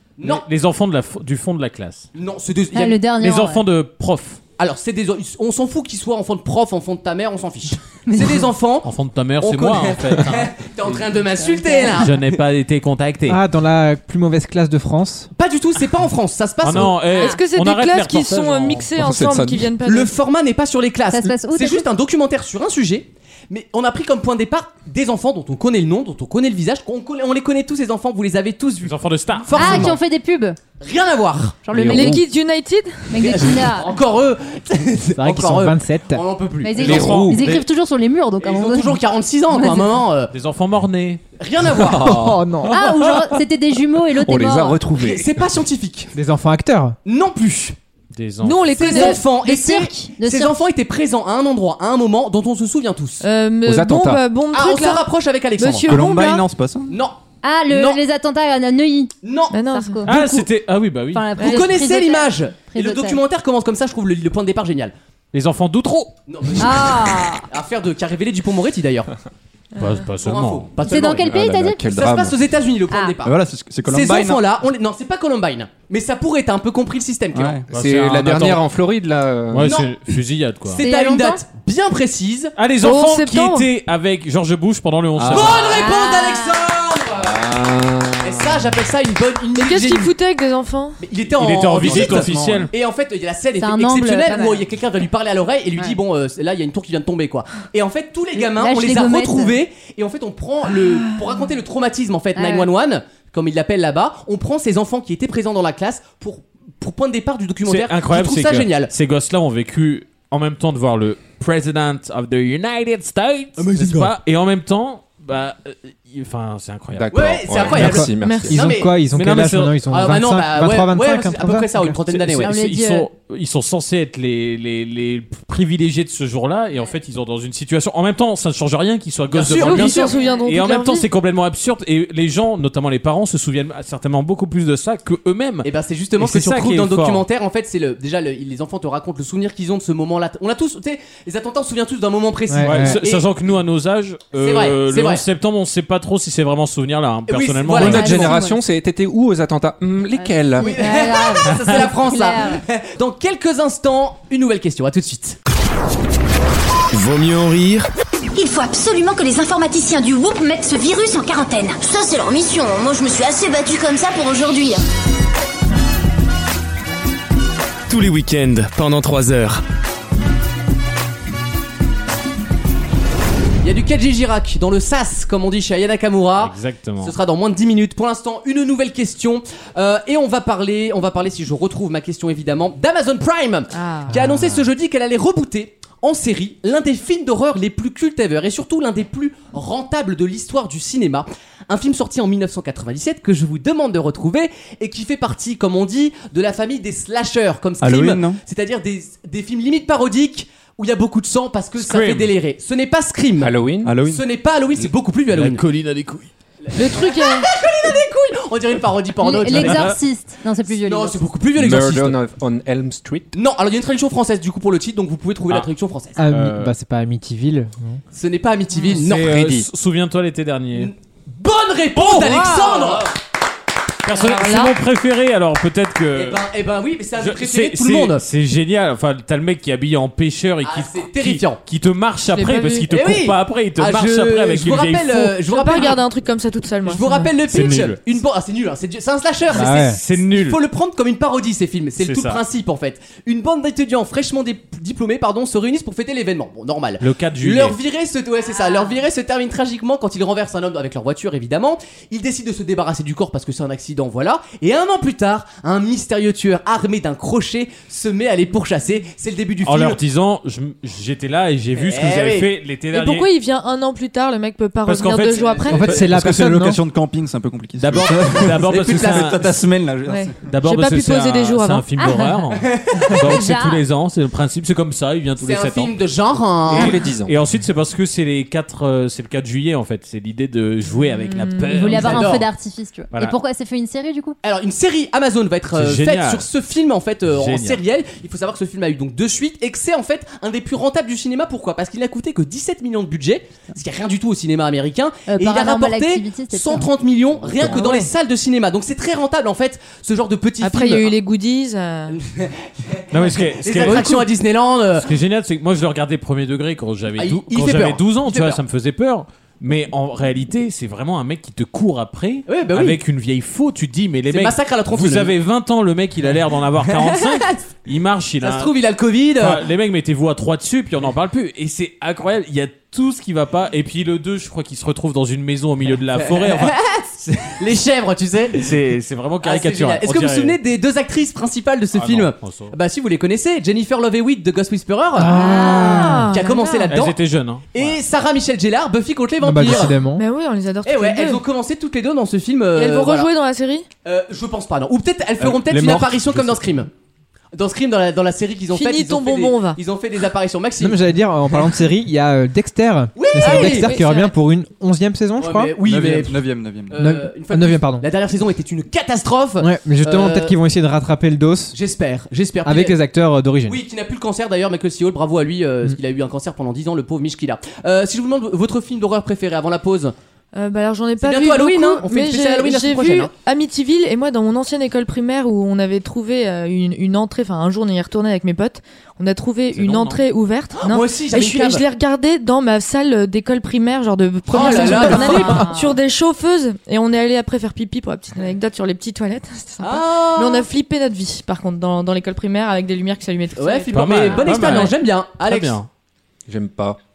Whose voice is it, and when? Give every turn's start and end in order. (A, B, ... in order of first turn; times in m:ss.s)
0:00.2-0:00.4 A
0:00.2-0:02.1 B
0:02.1-0:03.0 A
0:02.7-0:03.6 C
0:03.2-0:04.4 B
0:04.6-0:08.9 A
0:08.0-0:08.5 C
0:08.8-0:10.6 B
0:09.4-0:12.1 A
0:11.3-0:12.1 C
0:12.0-0:13.4 B
0:13.3-0:15.3 D
0:15.4-0:17.0 A
0:16.6-0:18.9 B
0:17.0-0:20.1 E
0:17.1-0:17.4 C
0:18.9-0:19.7 F
0:19.8-0:30.0 A
0:21.1-0:21.8 C
0:28.8-0:30.0 B
0:29.5-0:30.6 C
0:30.8-0:31.6 A
0:31.6-0:32.2 C
0:31.7-0:32.2 F
0:31.9-0:33.2 E
0:33.1-0:34.0 C
0:33.2-0:37.3 A
0:35.2-0:36.2 D
0:36.6-0:40.0 C
0:36.8-0:37.6 F
0:36.8-0:37.6 B
0:38.4-0:40.3 A
0:40.3-0:41.2 B
0:41.4-0:42.2 A
0:41.8-0:43.2 F
0:41.8-0:42.8 D
0:42.7-0:44.9 C
0:44.2-0:45.3 F
0:45.0-0:46.1 A
0:46.1-0:47.0 D
0:47.0-0:47.8 A
0:48.1-0:48.7 B
0:48.4-0:49.2 E
0:48.7-0:53.2 A
0:48.8-0:50.6 C
0:53.2-0:55.0 E
0:53.6-0:54.3 F
0:54.5-0:55.9 A
0:55.6-0:56.5 E
0:55.9-0:56.9 G
0:56.9-0:57.2 A
0:57.4-1:00.2 C
0:57.7-0:58.0 A
0:59.2-0:59.6 A
0:59.5-1:00.4 E
1:00.0-1:01.4 B
1:01.1-1:03.2 C
1:01.4-1:01.7 E
1:01.4-1:04.9 A
1:05.3-1:06.1 B
1:06.3-1:09.1 A
1:06.6-1:07.4 C
1:09.8-1:10.0 E
1:09.8-1:10.7 B
1:10.2-1:11.3 A
1:10.8-1:11.9 C
1:10.9-1:12.4 F
1:11.9-1:13.3 A
1:12.9-1:13.2 C
1:13.2-1:14.4 G
1:13.8-1:17.6 A
1:17.3-1:17.6 G
1:17.7-1:19.8 F
1:17.7-1:18.6 B
1:19.5-1:20.8 B
1:19.6-1:19.9 A
1:20.6-1:22.5 A
1:20.8-1:21.4 C
1:22.6-1:25.6 B
1:22.8-1:23.7 E
1:25.2-1:25.6 F
1:25.3-1:27.4 A
1:25.5-1:26.7 C
1:27.2-1:28.6 F
1:28.2-1:30.1 A
1:29.5-1:31.0 E
1:31.0-1:48.9 A
1:31.4-1:32.7 B
1:31.8-1:32.5 G
1:33.6-1:34.6 C
1:38.3-1:39.6 C
1:42.3-1:42.7 C
1:47.6-1:57.9 B
1:53.6-1:54.1 A
1:56.9-1:58.5 F
1:57.1-1:58.9 A
1:57.7-2:01.9 D
1:58.2-1:58.6 E
1:59.1-1:59.8 B
1:59.9-2:02.5 A
2:02.1-2:17.2 B
2:02.4-2:03.1 C
2:09.3-2:10.1 A
2:09.6-2:11.1 E
2:09.6-2:10.5 C
2:15.6-2:23.2 A
2:22.5-2:23.0 D
2:22.6-2:28.3 B
2:24.4-2:25.2 A
2:27.3-2:28.3 A
2:27.7-2:30.8 F
2:27.8-2:28.6 C
2:30.1-2:32.6 C
2:30.6-2:35.4 A
2:36.9-2:37.8 H
2:38.3-2:44.8 I
2:47.9-2:49.6 H
2:53.6-3:25.6 A
2:56.4-2:57.1 B
3:03.7-3:04.2 E
3:04.1-3:04.5 D
3:17.8-3:18.4 G
3:21.8-3:22.3 B
3:23.4-3:23.9 F
3:23.8-3:24.2 G
3:25.3-3:26.3 B
3:26.6-3:29.9 A
3:26.8-3:27.5 E
3:29.2-3:31.2 C
3:29.5-3:30.0 B
3:30.8-3:32.2 A
3:31.6-3:33.3 F
3:33.3-3:36.2 A
3:36.2-3:38.0 D
3:36.3-3:36.7 B
3:38.1-3:39.2 A
3:38.8-3:40.9 B
3:39.1-3:39.6 F
3:40.7-3:43.1 A
3:42.0-3:42.9 B
3:42.2-3:43.0 E
3:44.0-3:46.4 B
3:44.1-3:44.8 E
3:46.1-3:48.2 A
3:47.2-3:55.3 B
3:50.6-3:51.6 A
3:52.3-3:52.9 E
3:52.9-3:56.0 A
3:55.4-3:57.3 E
3:56.8-4:20.0 A
3:57.5-3:58.0 B
3:59.5-4:00.0 D
3:59.5-4:00.6 B
4:02.0-4:02.4 B
4:07.0-4:07.8 B
4:08.5-4:09.0 C
4:19.6-4:23.3 B
4:21.8-4:22.5 A
4:22.9-4:26.0 E
4:24.8-4:26.1 B
4:25.5-4:25.9 A
4:25.7-4:26.8 D
4:25.9-4:30.3 G
4:27.8-4:29.5 B
4:28.7-4:29.4 A
4:30.0-4:32.2 E
4:30.4-4:35.9 B
4:32.0-4:32.4 C
4:32.6-4:33.2 A
4:33.2-4:33.8 C
4:35.4-4:37.0 A
4:36.7-4:37.3 F
4:36.7-4:42.3 B
4:41.1-4:42.0 E
4:41.6-4:44.3 C
4:41.9-4:42.4 A
4:44.4-5:01.1 A
4:45.7-4:46.5 B
4:47.3-4:47.8 B
4:55.3-4:56.9 C
4:57.7-4:58.0 C
5:00.6-5:02.2 E
5:02.1-5:05.1 A
5:03.1-5:04.3 B
5:05.0-5:18.7 B
5:07.2-5:08.6 A
5:12.5-5:13.0 A
5:14.3-5:15.3 A
5:16.8-5:17.6 A
5:18.4-5:19.6 A
5:19.4-5:26.7 B
5:26.2-5:28.7 A
5:28.5-5:30.6 B
5:29.4-5:37.2 A
5:31.9-5:32.8 B
5:35.2-5:36.3 D
5:35.3-5:36.9 E
5:35.4-5:36.0 C
5:36.9-5:38.0 B
5:37.7-5:40.0 A
5:39.4-5:40.2 D
5:40.0-5:41.4 E
5:40.8-5:43.3 A
5:42.8-5:43.8 E
5:44.0-5:46.9 A
5:45.4-5:46.6 G
5:47.5-5:51.0 A
5:48.7-5:49.8 E
5:50.8-5:55.7 D
5:53.2-5:54.0 A
5:53.4-5:54.3 E
5:55.4-6:00.6 A
5:55.8-5:57.0 G
5:56.9-5:58.0 D
5:59.6-6:01.7 D
6:01.7-6:03.0 A
6:02.6-6:03.8 D
6:03.6-6:10.1 A
6:10.5-6:34.4 E
6:11.2-6:13.3 A
6:19.7-6:20.2 B
6:20.8-6:21.8 A
6:24.5-6:25.7 A
6:24.5-6:26.0 C
6:29.8-6:30.7 A
6:33.6-6:35.8 A
6:33.9-6:35.9 B
6:36.5-6:37.0 F